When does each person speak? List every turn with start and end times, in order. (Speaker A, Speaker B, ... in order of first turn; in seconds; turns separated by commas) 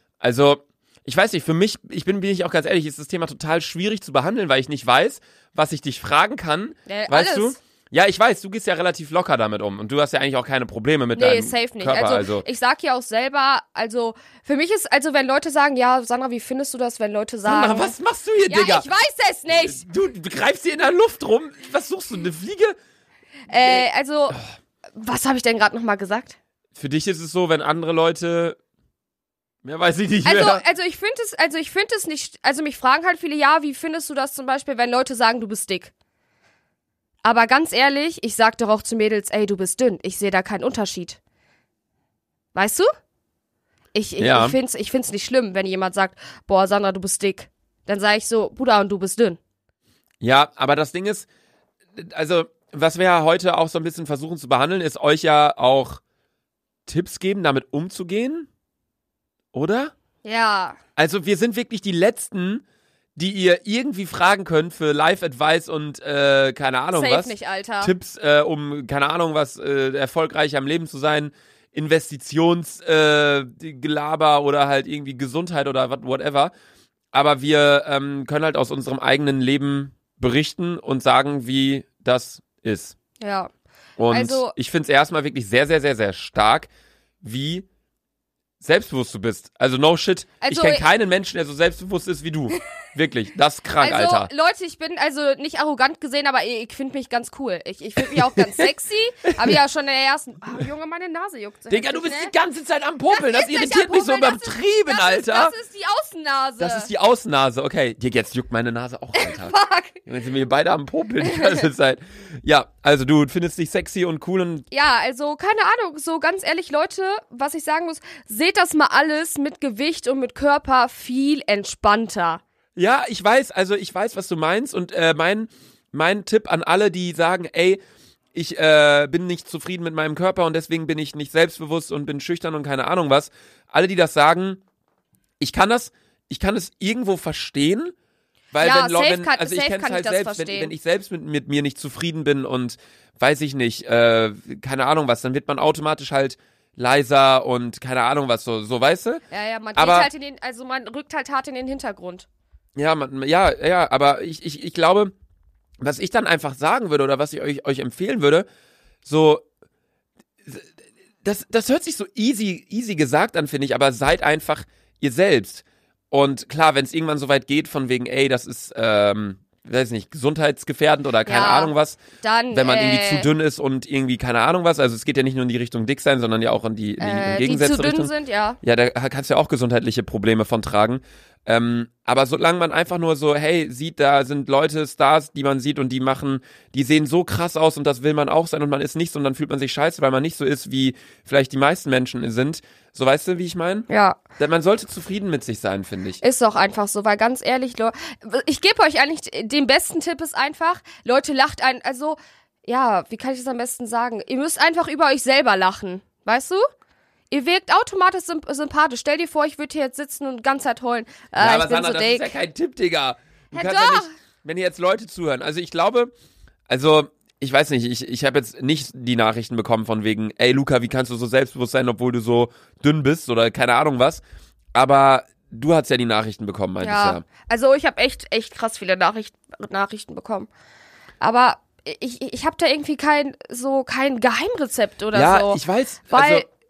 Speaker A: 0.2-12.4, Speaker B: 6.9-7.5, Speaker B: 11.1-17.9, Speaker A: 17.4-18.9, Speaker B: 18.5-19.8, Speaker A: 19.5-22.8, Speaker B: 23.5-24.4, Speaker B: 24.9-26.4, Speaker A: 26.8-28.6, Speaker A: 29.6-30.6, Speaker B: 30.2-35.9, Speaker B: 37.2-41.2, Speaker B: 42.5-42.9, Speaker B: 43.9-49.4, Speaker A: 44.2-44.6, Speaker A: 50.2-51.3, Speaker A: 52.0-56.0, Speaker A: 56.9-58.5, Speaker A: 59.5-59.9, Speaker B: 60.2-60.8, Speaker A: 61.0-62.6, Speaker A: 63.1-76.5, Speaker B: 66.9-67.9, Speaker A: 77.1-83.0, Speaker B: 83.2-83.5, Speaker A: 84.0-86.7, Speaker B: 84.1-84.5, Speaker A: 87.2-87.7, Speaker A: 88.6-94.3, Speaker B: 90.4-90.8, Speaker B: 93.8-102.3, Speaker A: 99.3-99.6, Speaker A: 101.7-105.5, Speaker B: 103.1-106.9, Speaker A: 106.6-114.7, Speaker B: 109.1-110.0, Speaker B: 111.2-111.6, Speaker B: 114.7-122.4, Speaker A: 122.8-127.8, Speaker A: 128.3-134.6, Speaker A: 135.4-137.9, Speaker A: 138.5-149.2, Speaker B: 138.6-140.7, Speaker B: 149.3-152.3, Speaker A: 149.7-150.1, Speaker A: 152.8-155.1, Speaker A: 155.8-158.4, Speaker A: 159.0-159.4, Speaker A: 161.2-172.0, Speaker B: 171.2-173.3, Speaker A: 172.5-193.9, Speaker B: 177.0-178.6, Speaker B: 193.9-194.2, Speaker A: 194.4-196.2, Speaker B: 196.2-206.6, Speaker B: 207.3-212.3, Speaker A: 211.4-216.1, Speaker B: 213.5-214.1, Speaker A: 216.7-224.2, Speaker A: 224.7-227.2, Speaker B: 226.8-230.5, Speaker B: 231.2-236.4, Speaker A: 235.1-236.4